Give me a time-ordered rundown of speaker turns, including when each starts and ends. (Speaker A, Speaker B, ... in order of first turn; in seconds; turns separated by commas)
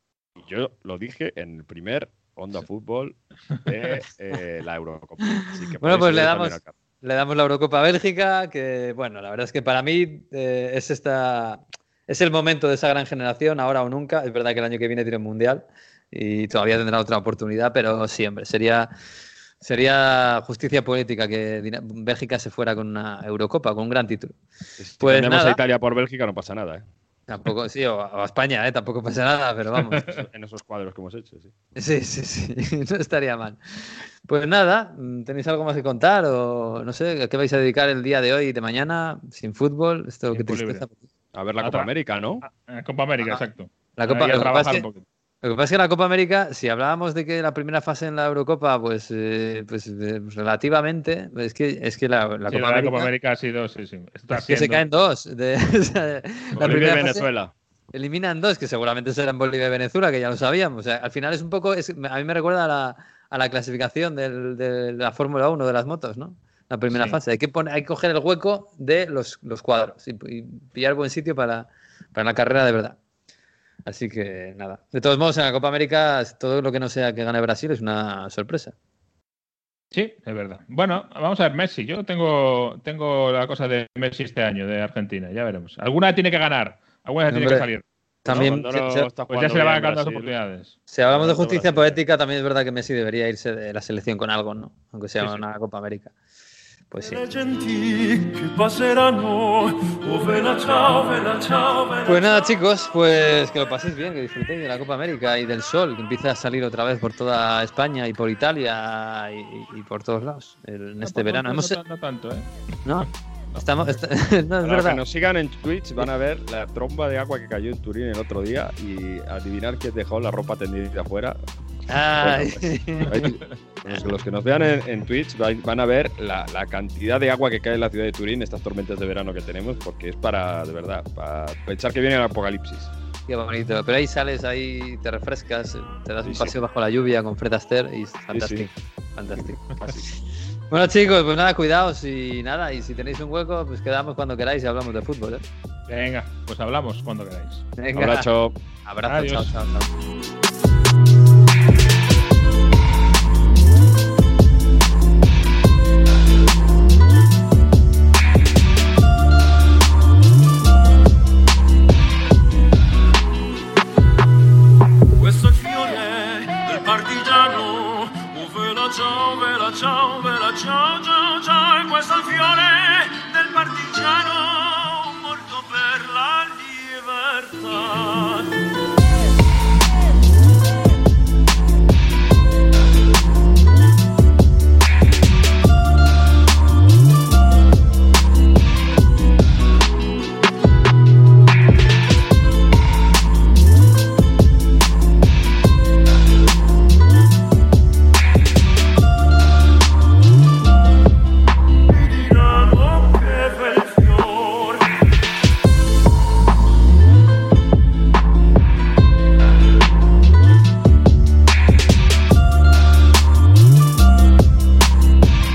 Speaker A: 0.4-6.8, Speaker B: 5.3-18.9, Speaker B: 19.6-24.4, Speaker A: 24.8-26.9, Speaker B: 25.0-25.6, Speaker B: 27.3-30.1, Speaker C: 29.9-30.2, Speaker A: 30.0-31.5, Speaker B: 31.8-41.0, Speaker C: 40.3-40.8, Speaker A: 41.3-42.4, Speaker C: 41.6-41.9, Speaker C: 42.4-45.0, Speaker B: 44.0-44.9, Speaker B: 45.4-53.1, Speaker C: 52.5-54.8, Speaker B: 54.3-57.3, Speaker C: 56.6-56.9, Speaker A: 56.6-57.5, Speaker B: 57.9-73.0, Speaker C: 66.9-67.2, Speaker B: 73.9-78.7, Speaker C: 79.9-87.8, Speaker B: 87.3-87.7, Speaker B: 88.2-89.1, Speaker A: 88.3-90.3, Speaker C: 89.3-90.8, Speaker B: 90.9-96.1, Speaker A: 91.1-92.0, Speaker B: 96.9-97.2, Speaker D: 97.0-102.5, Speaker B: 102.0-111.8, Speaker C: 111.0-112.5, Speaker B: 112.8-115.0, Speaker A: 114.6-121.4, Speaker B: 121.9-123.3, Speaker A: 122.2-132.9, Speaker B: 133.3-139.6, Speaker A: 136.2-136.5, Speaker A: 138.3-138.7, Speaker A: 139.8-140.1, Speaker B: 140.7-145.4, Speaker C: 145.9-147.7, Speaker B: 147.8-148.3, Speaker A: 147.9-148.6, Speaker B: 148.8-149.9, Speaker C: 149.1-149.5, Speaker D: 165.2-178.5, Speaker D: 201.9-204.9